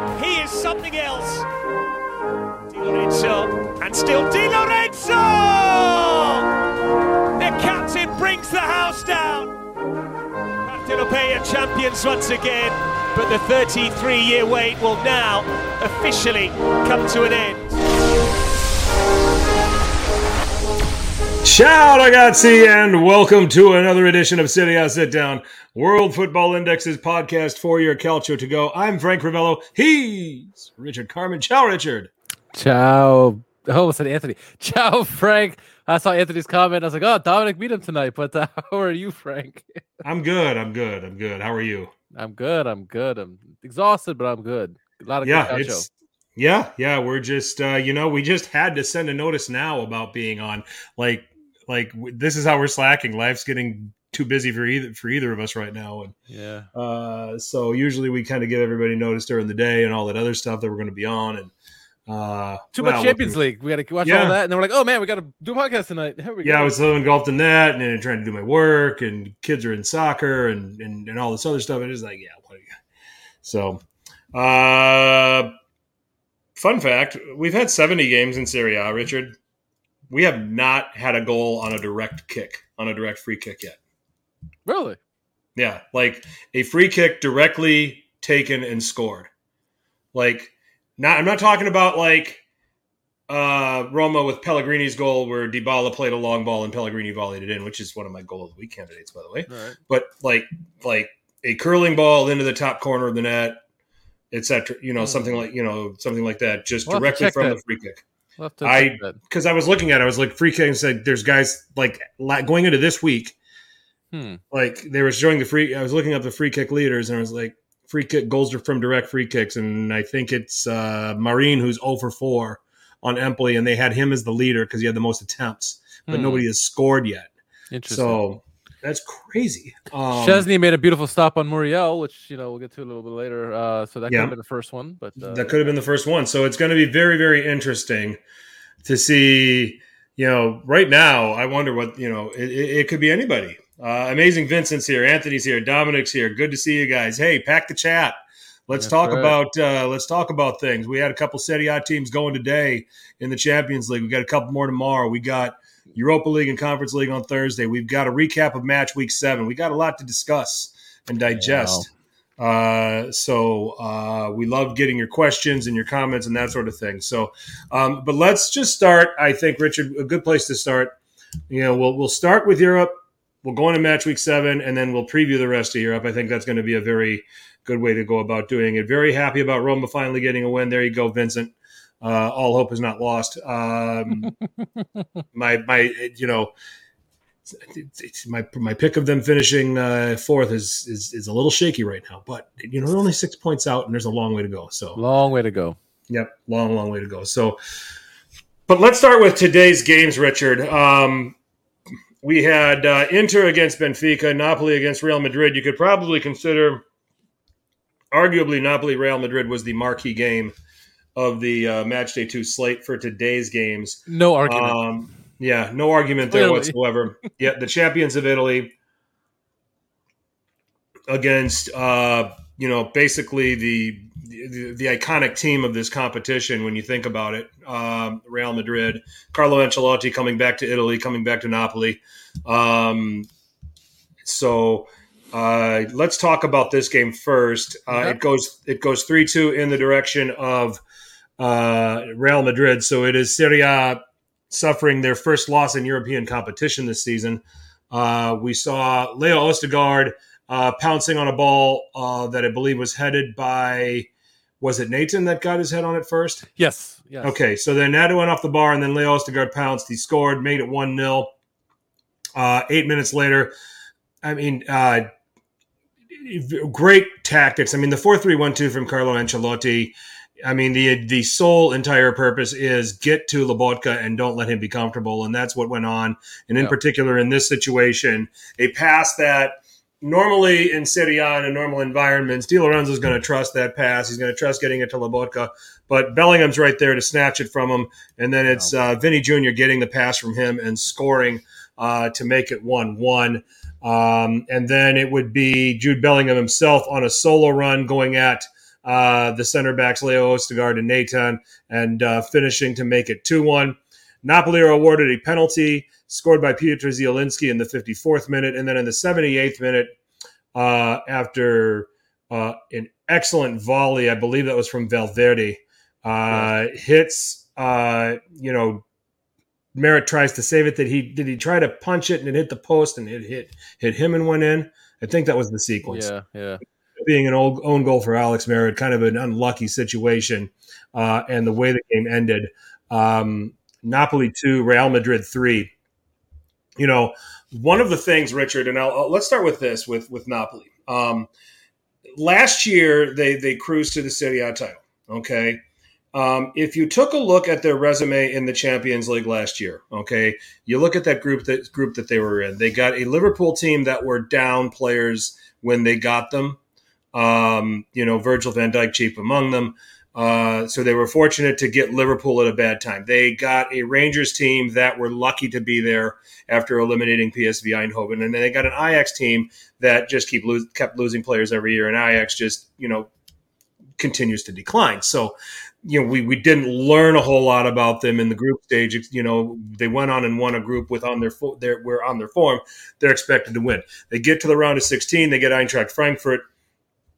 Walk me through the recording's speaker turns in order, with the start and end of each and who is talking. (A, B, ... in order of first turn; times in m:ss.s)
0:00.2-0:01.5 A
0:02.7-0:06.5 A
0:07.3-0:09.5 A
0:10.6-0:17.7 A
0:21.4-0:32.1 B
0:32.5-0:39.7 C
0:40.0-0:41.9 B
0:42.1-0:45.9 C
0:45.2-0:56.1 B
0:56.3-0:56.7 C
0:56.7-1:01.5 B
1:02.1-1:03.4 B
1:02.8-1:06.7 C
1:04.0-1:04.4 B
1:06.4-1:12.7 B
1:13.4-1:15.5 B
1:16.6-1:19.4 B
1:20.1-1:23.8 B
1:24.7-1:25.0 C
1:25.6-1:29.3 B
1:30.1-1:32.4 B
1:33.3-1:43.6 B
1:39.5-1:39.8 C
1:44.3-1:48.0 B
1:45.0-1:45.3 C
1:46.9-1:47.6 C
1:48.4-1:49.2 C
1:48.6-1:53.4 B
1:54.1-1:54.4 C
1:54.5-2:07.3 B
2:06.1-2:06.5 C
2:07.7-2:08.2 C
2:07.9-2:10.5 B
2:10.1-2:15.7 C
2:14.1-2:14.3 B
2:15.2-2:18.2 B
2:18.8-2:28.2 B
2:28.7-2:51.0 B
2:28.8-2:29.4 C
2:41.4-2:41.9 C
2:51.5-3:04.3 B
3:05.3-3:06.5 B
3:07.5-3:15.0 B
3:15.0-3:15.8 C
3:16.1-3:17.6 B
3:18.7-3:21.4 B
3:22.2-3:26.8 B
3:28.1-3:30.6 B
3:31.2-3:38.7 B
3:34.1-3:34.8 C
3:36.3-3:36.8 C
3:41.1-3:53.3 B
3:54.2-4:00.8 B
3:57.9-3:58.2 C
4:01.4-4:14.1 B
4:14.6-4:16.5 B
4:16.6-4:17.4 C
4:17.2-4:21.3 B
4:22.4-4:23.5 B
4:24.2-4:25.1 B
4:26.1-5:10.0 B
5:10.5-5:18.8 B
5:19.8-5:26.1 B
5:25.8-5:26.6 C
5:27.0-5:35.7 B
5:36.8-5:41.3 B
5:42.2-5:45.6 B
5:46.1-5:56.6 B
5:57.1-6:13.1 B
6:14.0-6:26.4 B